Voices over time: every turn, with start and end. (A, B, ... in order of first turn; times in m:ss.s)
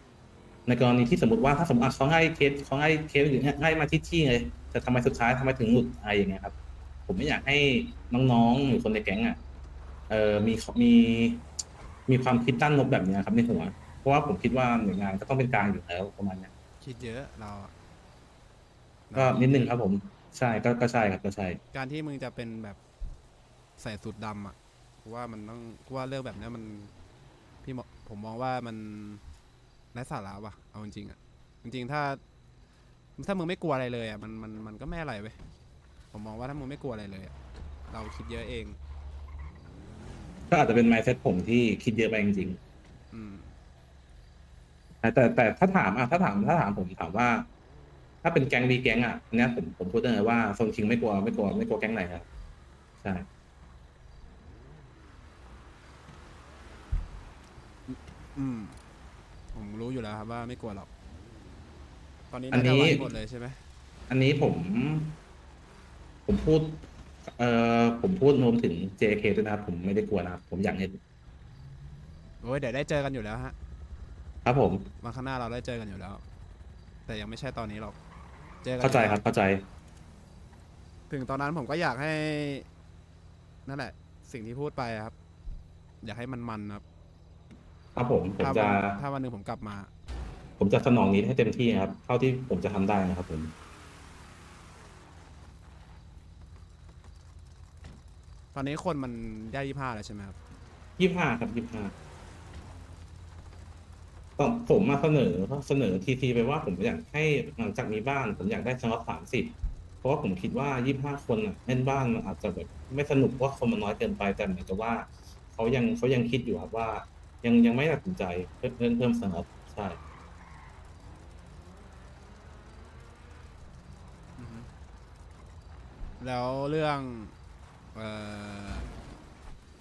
0:00.7-0:06.5 A
0:07.1-0:09.4 A
0:10.1-0:11.4 A
0:12.1-0:16.5 A
0:16.8-0:17.7 B
0:19.1-0:19.6 B
0:19.1-0:21.6 A
0:21.7-0:22.8 B
0:23.8-0:26.9 B
0:27.6-0:29.2 B
0:29.9-0:32.2 B
0:33.2-0:35.4 B
0:36.1-0:37.3 B
0:37.9-0:38.8 B
0:40.5-0:42.6 A
0:43.1-0:43.5 B
0:45.0-0:47.5 A
0:48.2-0:52.3 A
0:53.0-0:53.2 A
0:57.9-0:58.8 B
0:59.5-1:00.9 B
1:02.3-1:03.6 B
1:02.5-1:03.1 A
1:04.1-1:05.2 A
1:06.3-1:11.0 A
1:12.4-1:13.5 B
1:14.4-1:14.9 A
1:15.0-1:16.2 B
1:17.0-1:18.0 B
1:18.6-1:19.2 B
1:18.8-1:19.6 A
1:21.1-1:22.6 B
1:23.6-1:25.1 B
1:26.0-1:26.8 B
1:28.0-1:29.0 A
1:28.4-1:29.9 B
1:30.6-1:33.5 A
1:38.5-1:40.4 B
1:41.0-1:41.9 A
1:44.4-2:00.0 A
2:04.4-2:04.7 B
2:06.2-2:07.3 B
2:07.9-2:08.9 B